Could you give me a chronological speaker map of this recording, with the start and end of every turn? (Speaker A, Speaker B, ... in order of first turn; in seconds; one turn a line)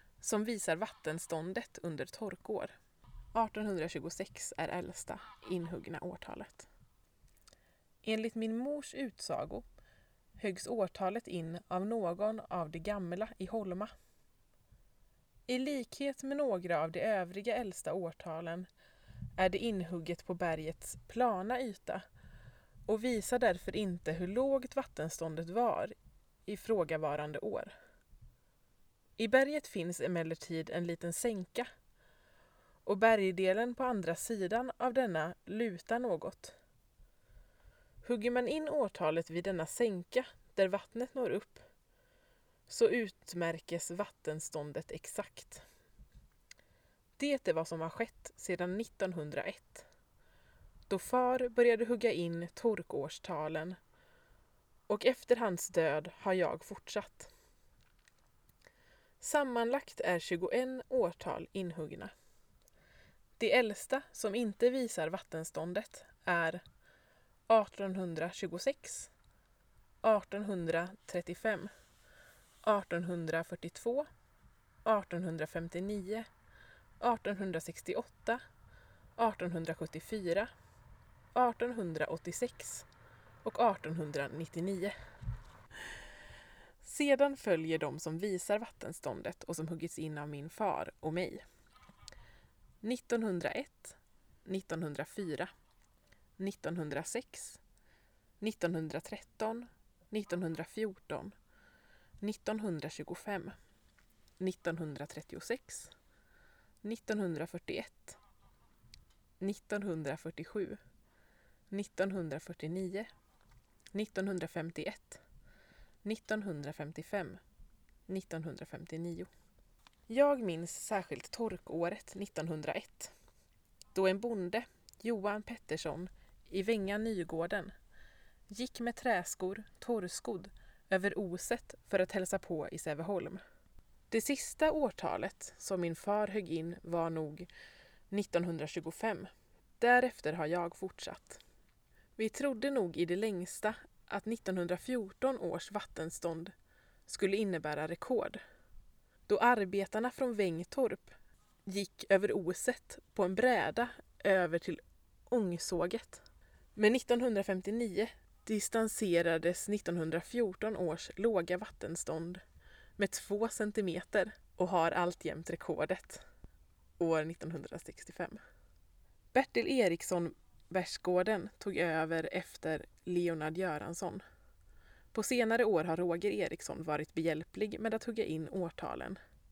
Speaker A: 0.2-2.7
Speaker A: 3.3-6.7
Speaker A: 8.0-9.7
Speaker A: 10.4-13.9
Speaker A: 15.5-18.7
Speaker A: 19.4-22.0
Speaker A: 22.9-25.9
Speaker A: 26.4-27.7
Speaker A: 29.2-31.7
Speaker A: 32.8-36.5
Speaker A: 38.0-41.6
Speaker A: 42.7-45.6
Speaker A: 47.2-49.9
Speaker A: 50.9-53.8
Speaker A: 54.9-57.3
Speaker A: 59.2-62.1
Speaker A: 63.4-66.6
Speaker A: 67.5-69.1
Speaker A: 70.0-71.7
Speaker A: 72.6-74.1
Speaker A: 74.8-76.3
Speaker A: 77.0-78.4
Speaker A: 79.2-80.5
Speaker A: 81.3-82.9
Speaker A: 83.4-84.9
Speaker A: 86.8-91.4
Speaker A: 92.8-95.5
Speaker A: 96.4-97.6
Speaker A: 98.4-101.3
Speaker A: 102.2-103.5
Speaker A: 104.4-105.9
Speaker A: 106.8-108.2
Speaker A: 109.4-110.8
Speaker A: 111.7-113.1
Speaker A: 113.9-115.2
Speaker A: 116.0-117.4
Speaker A: 118.1-119.3
Speaker A: 120.1-123.1
Speaker A: 123.9-127.7
Speaker A: 128.5-133.4
Speaker A: 134.1-137.5
Speaker A: 138.1-141.4
Speaker A: 142.2-146.5
Speaker A: 147.1-148.4
Speaker A: 149.3-151.1
Speaker A: 151.7-156.2
Speaker A: 156.8-162.4
Speaker A: 163.0-166.2
Speaker A: 167.0-168.4
Speaker A: 169.3-174.2
Speaker A: 175.1-179.2